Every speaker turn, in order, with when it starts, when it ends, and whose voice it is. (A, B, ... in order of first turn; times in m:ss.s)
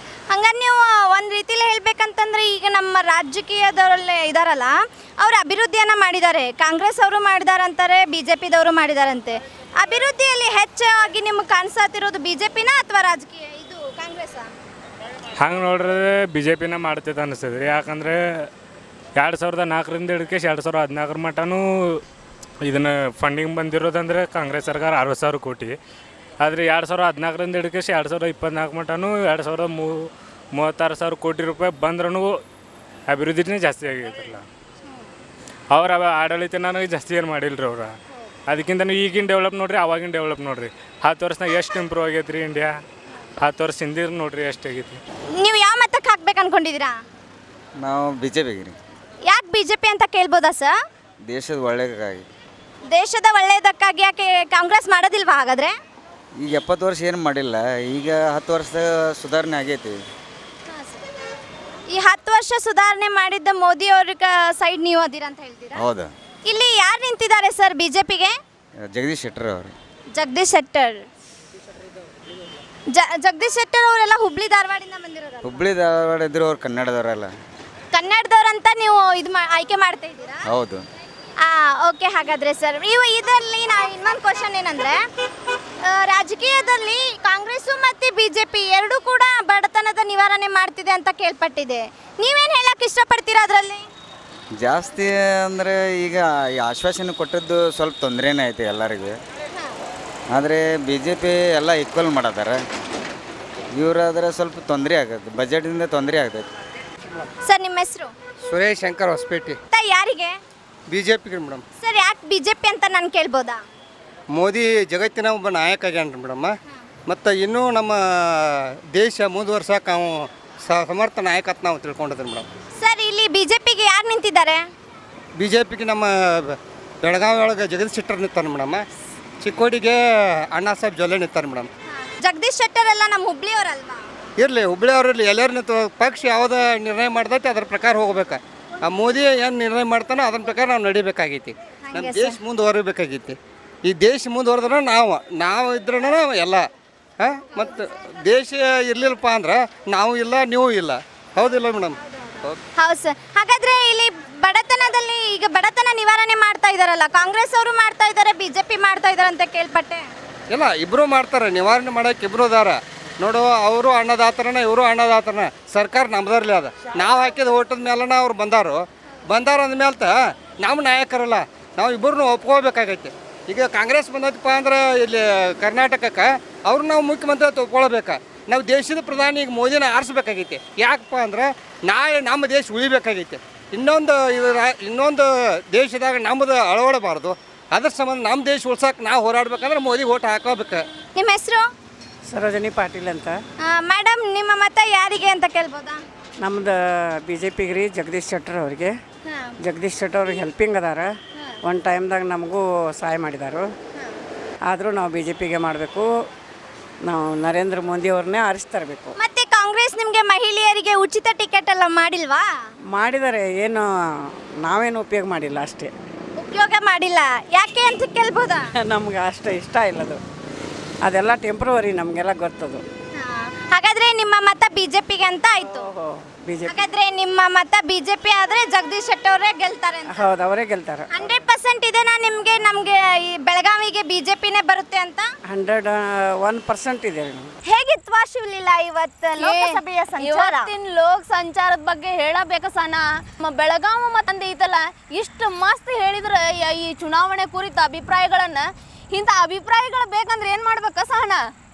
0:00.3-0:14.5 A
0:15.4-0:18.5 B
0:19.2-0:22.0 B
0:22.6-0:25.8 B
0:26.4-0:32.4 B
0:33.1-0:34.5 B
0:35.7-0:37.9 B
0:38.5-0:42.8 B
0:43.4-0:45.0 B
0:45.4-0:47.0 A
0:47.8-0:48.8 C
0:49.2-0:50.7 A
0:51.2-0:52.3 C
0:52.9-0:55.8 A
0:56.4-1:00.0 C
1:00.7-1:01.0 A
1:01.9-1:05.8 A
1:05.8-1:06.1 C
1:06.5-1:08.3 A
1:08.9-1:09.7 C
1:10.2-1:11.0 A
1:12.9-1:15.6 A
1:15.4-1:17.3 C
1:17.9-1:20.4 A
1:20.4-1:20.8 C
1:21.4-1:25.0 A
1:25.9-1:33.8 A
1:34.6-1:39.2 C
1:40.3-1:42.6 C
1:43.8-1:46.5 C
1:47.4-1:48.1 A
1:48.5-1:49.6 D
1:49.7-1:50.4 A
1:50.9-1:51.6 D
1:51.8-1:53.6 A
1:54.3-1:56.5 D
1:57.1-2:00.1 D
2:00.7-2:02.5 D
2:02.8-2:04.6 A
2:05.4-2:08.8 D
2:09.4-2:10.0 D
2:10.5-2:11.7 D
2:11.9-2:14.0 A
2:14.4-2:26.7 D
2:21.9-2:22.4 A
2:27.2-2:32.6 D
2:32.8-2:40.1 A
2:40.5-3:10.8 D
3:11.2-3:11.7 A
3:12.3-3:13.4 E
3:13.7-3:16.0 A
3:16.4-3:18.9 E
3:19.3-3:19.5 A
3:19.6-3:21.1 E
3:21.6-3:23.7 E
3:24.7-3:26.1 E
3:27.0-3:29.2 E
3:29.2-3:32.5 A
3:32.9-3:33.9 E
3:34.7-3:35.9 E
3:36.4-3:38.7 A
3:38.8-3:40.2 E
3:41.0-3:42.8 E
3:43.2-3:45.9 A
3:45.6-3:46.8 E
3:46.7-3:50.3 A
3:50.1-3:51.1 E
3:51.1-3:55.3 A
3:55.5-3:57.5 E
3:57.7-4:00.7 A
3:59.4-4:11.4 F